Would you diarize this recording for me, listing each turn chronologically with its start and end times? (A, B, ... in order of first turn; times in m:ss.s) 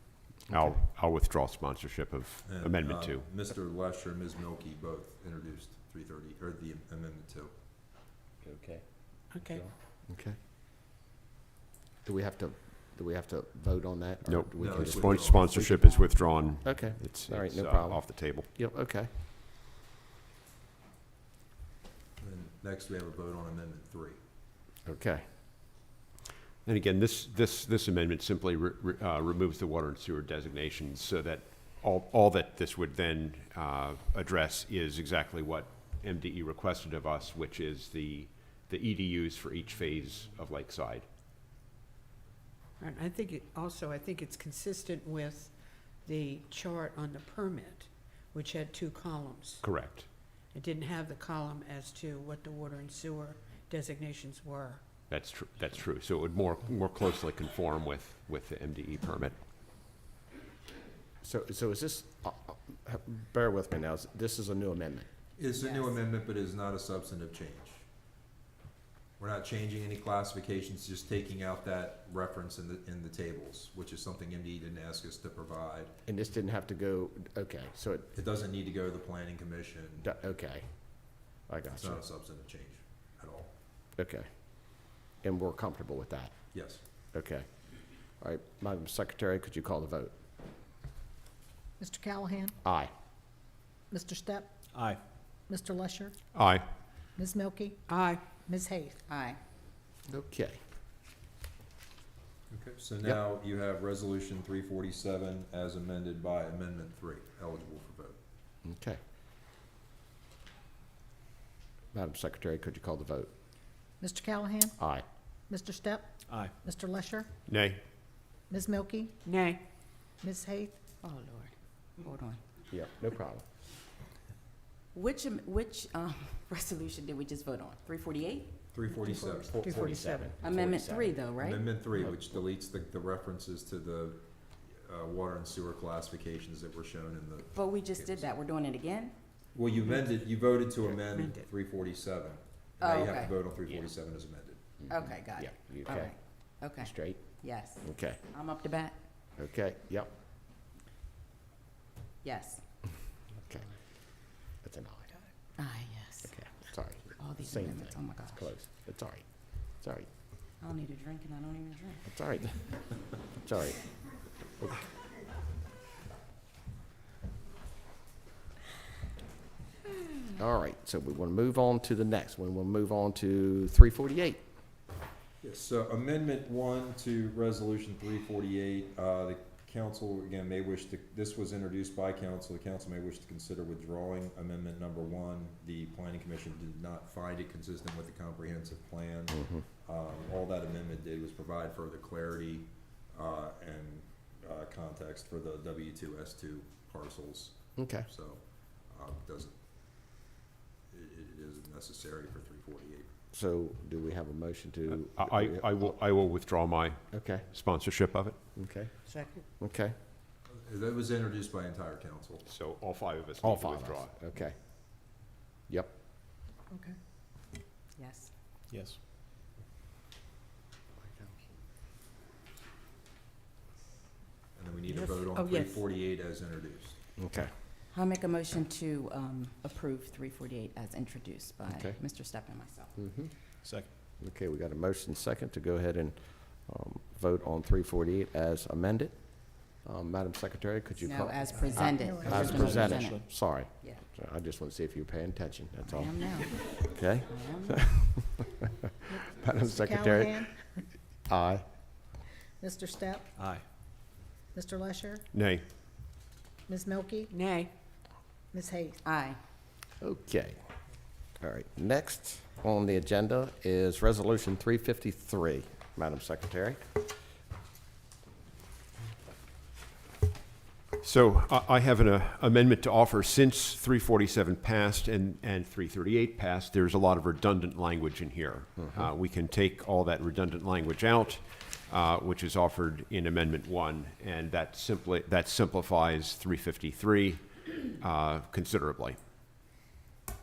0:00.5-0:00.8 A
0:00.5-0:03.3 B
0:02.5-0:07.5 C
0:08.4-0:08.8 A
0:09.3-0:09.6 D
0:09.4-0:10.4 A
0:12.0-0:15.8 A
0:14.3-0:18.5 B
0:14.6-0:15.5 C
0:15.8-0:16.2 E
0:16.6-0:19.1 A
0:22.2-0:24.2 C
0:24.8-0:25.2 A
0:26.6-0:41.1 B
0:42.8-0:49.7 D
0:49.6-0:50.1 B
0:50.5-0:54.8 D
0:55.1-0:59.4 B
1:01.2-1:05.1 A
1:05.4-1:07.8 C
1:09.2-1:15.9 C
1:16.1-1:18.1 A
1:18.1-1:20.1 C
1:20.0-1:20.6 A
1:21.2-1:22.0 A
1:21.7-1:23.5 C
1:24.0-1:26.3 A
1:26.5-1:26.8 C
1:27.1-1:27.4 A
1:28.2-1:30.1 A
1:31.8-1:32.6 F
1:32.6-1:32.9 A
1:33.9-1:34.5 F
1:34.7-1:35.0 G
1:35.5-1:36.2 F
1:36.3-1:36.6 B
1:37.2-1:37.8 F
1:37.9-1:38.2 D
1:38.4-1:39.0 F
1:39.1-1:39.4 E
1:40.1-1:40.6 A
1:42.5-1:48.2 C
1:48.6-1:49.0 A
1:51.9-1:53.3 A
1:54.0-1:54.8 F
1:54.8-1:55.0 A
1:55.5-1:57.3 F
1:56.3-1:56.5 G
1:57.5-1:57.8 B
1:58.5-1:59.1 F
1:59.2-1:59.6 D
2:00.2-2:00.8 F
2:01.0-2:02.4 E
2:02.7-2:03.4 A
2:04.9-2:08.5 E
2:08.7-2:09.8 C
2:09.1-2:10.4 D
2:09.6-2:11.2 A
2:10.4-2:11.7 E
2:11.4-2:18.3 C
2:17.6-2:19.1 E
2:19.5-2:24.8 C
2:19.8-2:20.2 D
2:20.8-2:21.5 D
2:22.8-2:23.4 E
2:24.9-2:28.2 A
2:24.9-2:29.0 E
2:29.4-2:30.1 A
2:32.2-2:32.6 E
2:33.4-2:33.7 A
2:34.6-2:35.1 A
2:35.6-2:36.4 E
2:36.2-2:40.1 A
2:37.2-2:38.5 E
2:40.6-2:42.1 E
2:42.1-2:44.1 A
2:44.6-2:44.8 A
2:50.4-2:54.4 A
2:55.4-3:19.6 C
3:09.3-3:09.6 A
3:17.8-3:18.1 A
3:20.9-3:23.1 C
3:23.3-3:26.0 A
3:24.9-3:28.4 B
3:27.1-3:27.5 A
3:28.6-3:29.9 A
3:29.1-3:29.4 D
3:30.6-3:32.5 C
3:32.5-3:34.1 B
3:33.4-3:34.6 A
3:35.7-3:35.9 A
3:38.0-3:38.3 E
3:38.7-3:39.0 G
3:44.6-3:47.0 C
3:44.9-3:45.8 D
3:47.2-3:47.5 A
3:47.9-3:52.9 E
3:51.6-3:52.0 A
3:53.0-3:53.3 A
3:53.6-3:53.9 G
3:54.2-4:08.5 A
4:01.0-4:03.2 E
4:01.5-4:03.3 G
4:01.8-4:03.0 F
4:05.9-4:06.7 E
4:07.3-4:08.0 E
4:09.1-4:10.8 F
4:09.2-4:11.6 A
4:12.6-4:13.3 F
4:13.4-4:13.7 G
4:14.5-4:15.2 F
4:15.3-4:15.6 B
4:16.7-4:17.3 F
4:17.3-4:17.7 D
4:18.5-4:19.0 F
4:19.0-4:19.4 E
4:20.0-4:20.6 A
4:21.4-4:26.8 A
4:31.0-4:49.2 B